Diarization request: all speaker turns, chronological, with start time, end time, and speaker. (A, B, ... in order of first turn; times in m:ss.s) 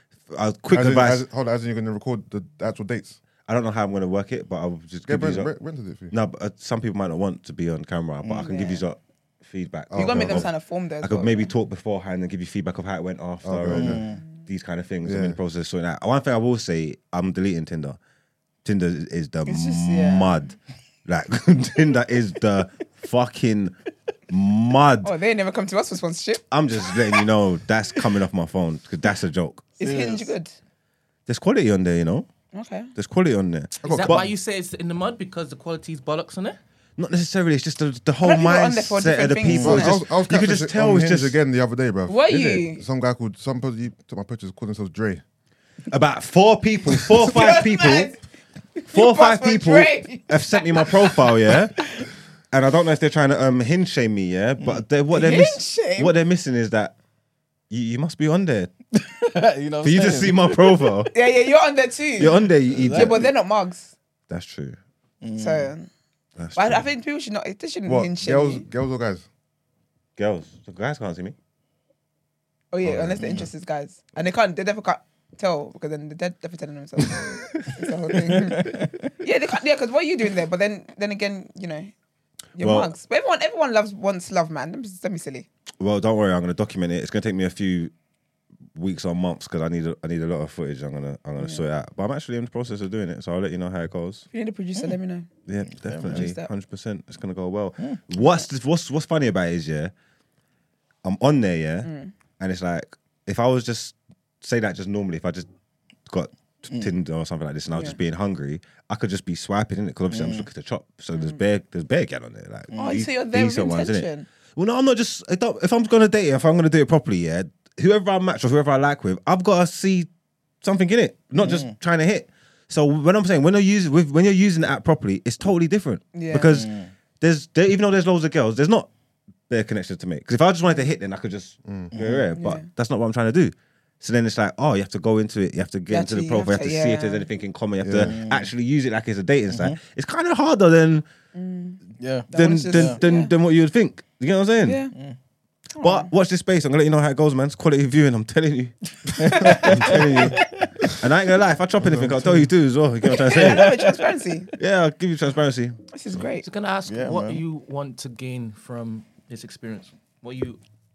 0:00.3-0:01.3 A
0:00.7-0:03.2 B
0:03.4-0:05.5 A
0:05.1-0:06.1 B
0:06.1-0:10.5 A
0:08.4-0:08.8 C
0:09.9-0:10.5 B
0:10.0-0:11.5 C
0:11.0-0:18.0 A
0:13.4-0:14.1 B
0:13.7-0:14.2 D
0:15.0-0:15.4 B
0:18.6-0:23.8 A
0:19.4-0:20.4 C
0:24.3-0:25.1 A
0:25.0-0:26.4 C
0:26.5-0:29.7 A
0:29.8-0:30.3 D
0:29.8-0:30.5 C
0:31.3-0:32.3 A
0:32.5-0:32.9 C
0:33.0-0:34.3 A
0:33.8-0:34.3 B
0:33.8-0:36.6 E
0:37.0-0:41.4 A
0:38.2-0:40.0 C
0:39.6-0:45.2 B
0:42.1-0:42.8 C
0:42.3-0:42.6 A
0:45.9-0:48.1 A
0:47.2-0:48.2 C
0:48.8-0:51.2 C
0:48.9-0:51.9 A
0:52.5-0:57.0 A
0:55.1-0:56.1 C
0:57.7-0:58.7 A
0:58.9-1:01.1 D
0:59.8-1:01.1 A
1:01.1-1:04.0 C
1:02.2-1:03.3 A
1:02.4-1:03.3 D
1:04.3-1:04.8 A
1:05.2-1:05.7 D
1:05.4-1:05.9 C
1:06.4-1:06.8 A
1:06.5-1:08.7 C
1:07.9-1:09.3 B
1:10.2-1:11.4 A
1:12.7-1:21.9 C
1:12.9-1:13.4 A
1:17.2-1:17.7 A
1:18.3-1:18.9 D
1:22.6-1:25.5 C
1:22.6-1:22.9 A
1:25.8-1:27.9 A
1:28.7-1:34.3 A
1:31.4-1:31.6 C
1:34.3-1:35.3 C
1:35.5-1:39.9 A
1:35.7-1:36.3 D
1:36.0-1:36.5 C
1:41.0-1:45.5 A
1:41.8-1:42.1 C
1:46.1-2:00.1 A
1:50.1-1:50.5 D
1:51.1-1:51.4 C
1:52.7-1:53.0 D
1:52.8-1:54.3 C
2:00.6-2:08.9 A
2:01.4-2:01.7 D
2:06.1-2:06.6 C
2:06.5-2:06.9 D
2:09.5-2:21.1 A
2:11.6-2:11.9 B
2:11.9-2:12.3 D
2:12.4-2:12.7 C
2:15.9-2:17.3 C
2:17.8-2:18.2 B
2:18.0-2:18.5 D
2:19.5-2:19.8 D
2:21.3-2:23.3 C
2:22.0-2:23.0 D
2:22.3-2:24.8 A
2:24.6-2:25.0 C
2:25.8-2:26.1 C
2:25.8-2:33.8 A
2:29.1-2:30.7 D
2:29.4-2:29.7 C
2:31.9-2:32.3 B
2:32.0-2:32.4 D
2:33.1-2:34.0 D
2:33.3-2:34.5 C
2:34.6-2:35.8 A
2:35.9-2:36.5 C
2:36.4-2:40.6 E
2:36.9-2:37.4 D